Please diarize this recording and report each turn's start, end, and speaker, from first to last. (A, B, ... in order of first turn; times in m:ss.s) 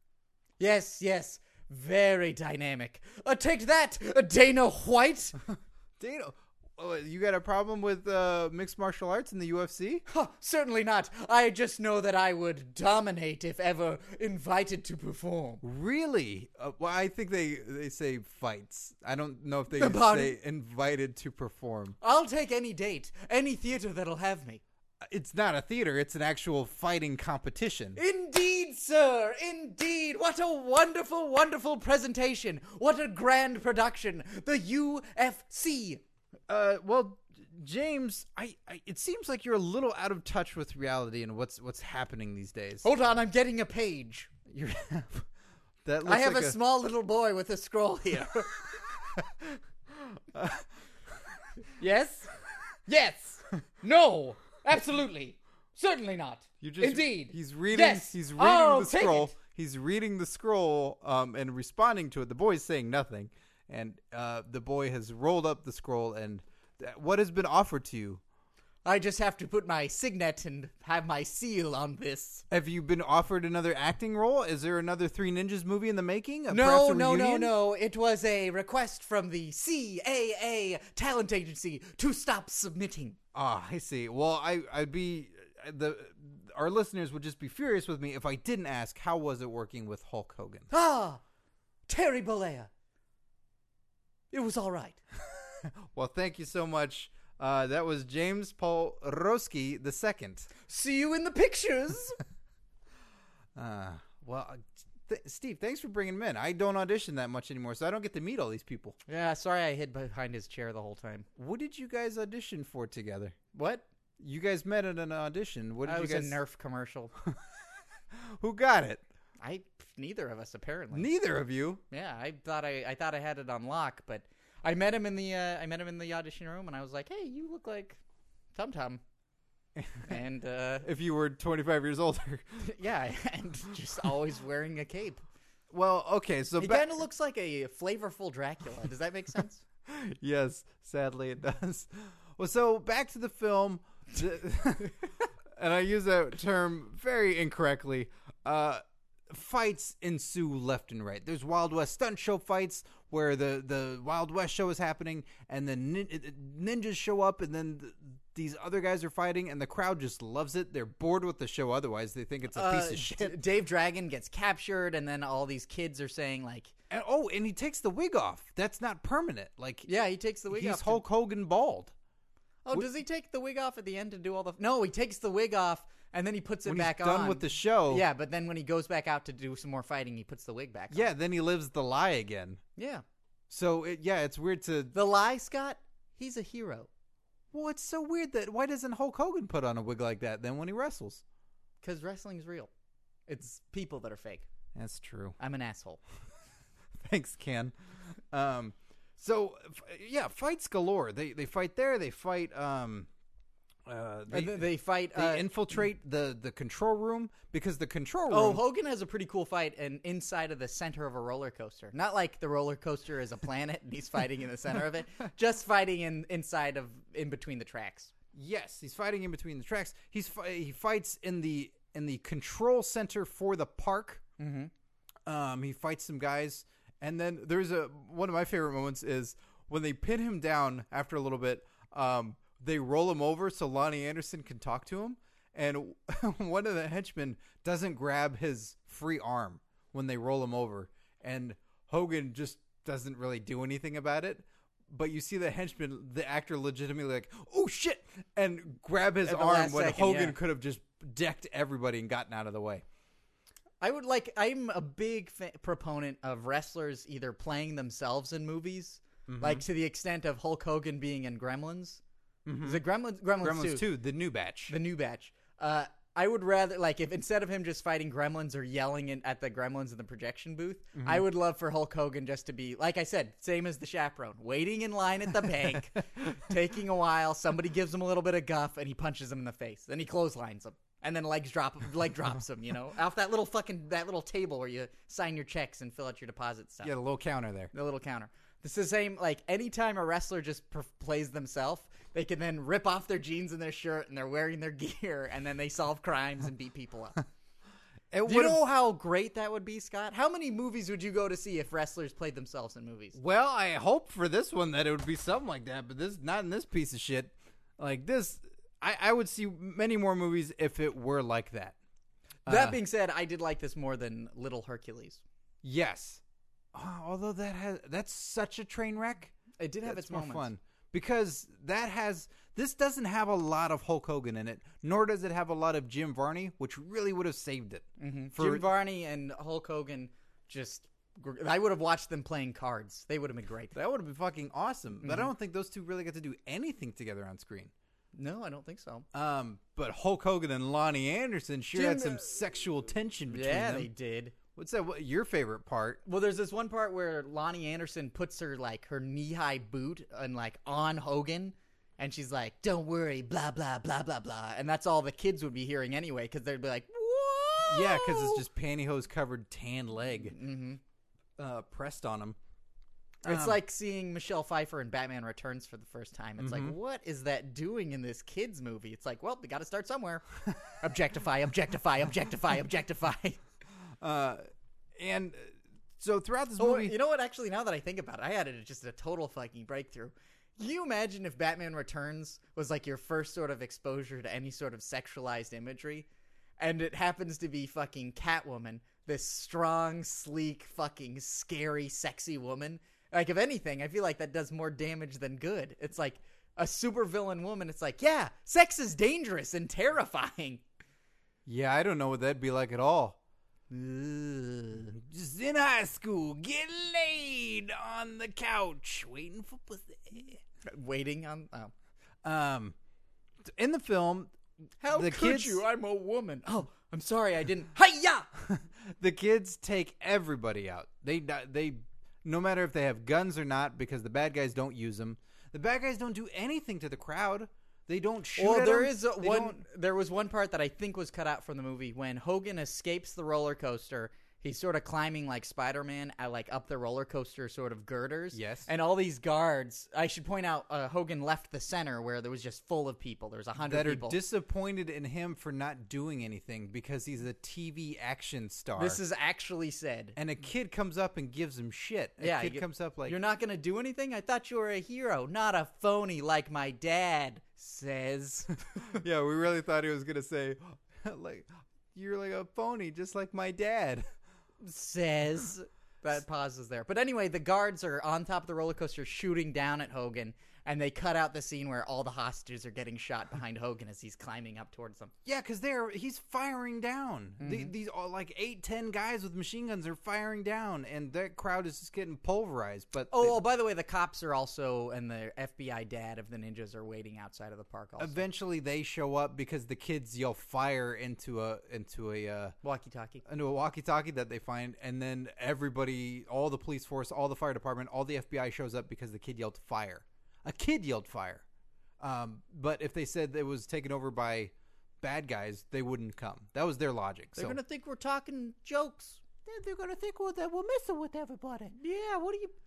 0:00.6-0:05.4 A
0:05.5-0:10.0 B
0:10.1-0:15.6 A
0:15.6-0:22.0 B
0:19.7-0:20.4 A
0:22.0-0:24.6 A
0:25.0-0:28.0 B
0:28.0-0:36.0 A
0:36.5-0:42.8 B
0:42.8-0:44.3 A
0:44.5-0:45.3 B
0:45.8-0:46.6 B
0:46.0-0:48.6 A
0:49.1-0:50.6 B
0:51.8-0:52.3 A
0:52.9-0:59.3 A
0:56.6-1:08.2 B
1:08.8-1:12.4 A
1:12.5-1:17.5 B
1:16.5-1:23.2 A
1:23.3-1:30.7 B
1:30.7-1:31.2 A
1:31.9-1:32.7 A
1:34.3-1:35.0 A
1:35.6-1:40.5 B
1:40.7-1:42.2 A
1:43.5-1:49.0 B
1:49.1-1:51.2 A
1:51.4-1:53.4 B
1:53.5-1:53.8 A
1:54.2-1:56.4 B
1:55.8-1:57.1 A
1:58.1-1:59.0 B
1:59.4-2:01.1 A
2:00.9-2:01.8 B
2:01.9-2:08.0 A
2:08.5-2:09.0 A
2:09.8-2:10.2 B
2:10.0-2:10.9 A
2:10.8-2:12.6 B
2:12.6-2:15.2 A
2:15.7-2:17.0 B
2:16.6-2:19.6 A
2:19.9-2:25.0 B
2:25.5-2:43.4 B
2:42.5-2:46.7 A
2:46.9-2:49.9 B
2:49.8-2:51.0 A
2:50.5-2:51.9 B
2:52.6-3:01.1 A
2:56.6-2:58.0 B
3:00.9-3:02.6 B
3:02.8-3:03.0 A
3:03.5-3:04.9 B
3:04.9-3:06.9 A
3:07.5-3:11.2 B
3:11.8-3:12.7 A
3:13.3-3:14.5 A
3:14.7-3:15.4 B
3:15.4-3:16.0 A
3:17.0-3:17.7 B
3:18.3-3:23.1 B
3:23.8-3:28.6 B
3:24.3-3:25.5 A
3:28.3-3:38.1 A
3:38.3-3:44.2 B
3:44.4-3:44.7 A
3:45.2-4:12.8 B
4:09.2-4:10.4 A
4:13.8-4:22.0 A
4:19.3-4:19.6 B
4:22.4-4:22.8 B
4:22.6-4:23.8 A
4:23.4-4:24.7 B
4:24.7-4:46.9 A
4:30.9-4:31.2 B
4:46.8-4:47.7 B
4:47.7-4:57.2 A
4:58.1-4:58.6 B
4:58.2-5:03.2 A
5:03.1-5:11.8 B
5:12.4-5:12.8 B
5:12.5-5:15.2 A
5:15.6-5:16.2 B
5:16.7-5:28.6 B
5:19.6-5:20.5 A
5:28.0-5:33.7 A
5:33.7-5:37.7 B
5:35.0-5:35.3 A
5:38.1-5:39.0 A
5:39.1-5:43.9 B
5:41.7-5:42.3 A
5:43.3-5:44.3 A
5:44.5-5:46.0 B
5:46.0-5:58.4 A
5:57.7-6:00.3 B
6:00.3-6:00.8 A
6:01.4-6:02.4 B
6:03.2-6:03.6 B
6:03.2-6:13.4 A
6:06.4-6:06.8 B
6:14.0-6:14.4 B
6:15.0-6:16.9 B
6:16.6-6:26.1 A
6:26.6-6:40.6 A
6:41.4-6:43.2 B
6:43.7-6:50.4 B
6:44.1-6:44.4 A
6:50.6-6:51.7 A
6:52.2-6:52.7 B
6:53.4-6:54.3 B
6:54.8-6:58.3 A
6:54.9-6:55.6 B
6:58.4-7:09.6 B
7:08.4-7:24.2 A
7:18.3-7:18.7 B
7:23.6-7:29.0 B
7:28.8-7:30.2 A
7:30.2-7:33.2 B
7:32.2-7:38.9 A
7:38.8-7:44.0 B
7:44.6-7:55.1 A
7:55.2-8:03.4 B
7:57.4-7:57.7 A
8:03.1-8:08.2 A
8:08.0-8:12.5 B
8:12.6-8:13.2 A
8:13.2-8:21.4 B
8:22.0-8:27.6 B
8:27.4-8:29.2 A
8:29.4-8:31.8 B
8:31.8-8:32.5 A